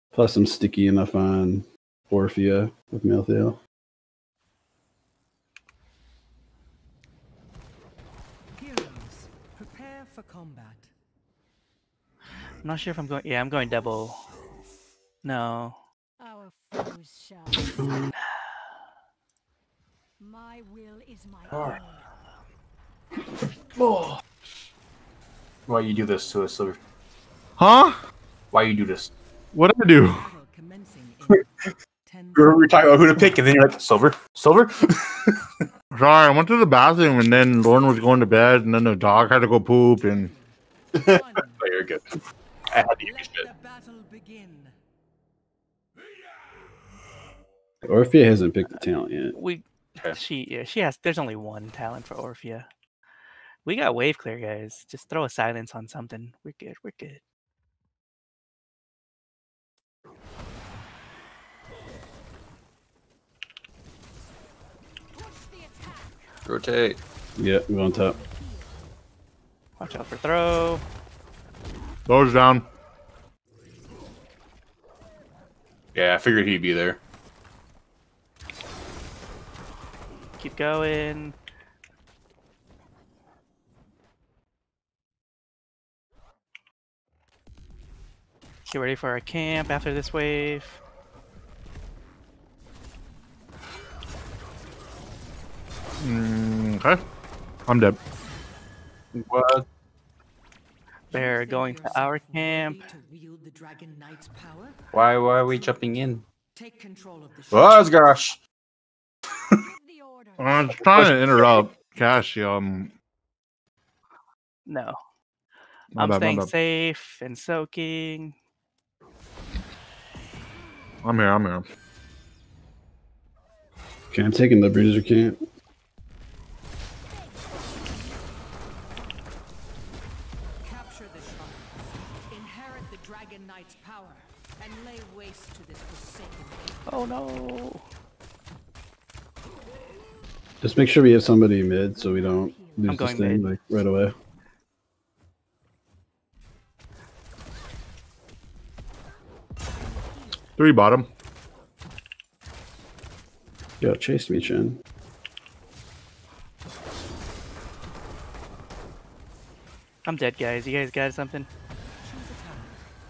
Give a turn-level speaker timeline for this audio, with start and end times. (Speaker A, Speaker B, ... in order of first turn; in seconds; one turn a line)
Speaker A: 0.1-3.6
Speaker B: 8.6-10.9
Speaker C: 12.6-14.2
Speaker C: 15.2-15.8
Speaker D: 16.2-17.8
Speaker A: 17.8-18.1
Speaker D: 20.2-22.1
Speaker E: 21.5-21.8
Speaker E: 25.7-26.8
Speaker F: 27.6-28.0
Speaker E: 28.5-29.1
Speaker F: 29.5-30.3
Speaker B: 29.9-33.2
Speaker E: 32.3-35.4
Speaker F: 35.9-40.3
Speaker B: 39.1-41.6
Speaker E: 40.9-42.2
Speaker E: 42.7-43.5
Speaker B: 43.0-44.7
Speaker A: 47.8-49.3
Speaker C: 49.3-52.7
Speaker C: 53.6-57.2
Speaker D: 65.1-66.3
Speaker E: 66.5-67.0
Speaker A: 67.4-68.2
Speaker D: 67.8-68.8
Speaker C: 69.8-70.8
Speaker F: 72.0-72.7
Speaker E: 75.9-77.0
Speaker C: 80.4-81.3
Speaker C: 88.7-90.8
Speaker F: 96.0-97.0
Speaker F: 97.7-98.0
Speaker E: 99.1-99.7
Speaker B: 101.1-104.8
Speaker C: 101.1-102.8
Speaker E: 104.9-106.2
Speaker B: 106.5-107.9
Speaker E: 107.5-108.4
Speaker D: 109.6-110.8
Speaker F: 110.4-112.9
Speaker E: 110.7-111.6
Speaker C: 114.7-115.0
Speaker F: 115.9-116.5
Speaker C: 116.0-118.3
Speaker F: 121.0-121.6
Speaker A: 124.1-125.4
Speaker D: 127.0-129.3
Speaker B: 130.6-136.8
Speaker C: 136.9-137.8
Speaker A: 140.6-144.1
Speaker D: 141.9-143.3
Speaker C: 142.8-143.5
Speaker D: 149.6-150.6
Speaker F: 150.6-151.1
Speaker A: 153.8-154.8
Speaker C: 160.0-161.5
Speaker B: 162.0-162.8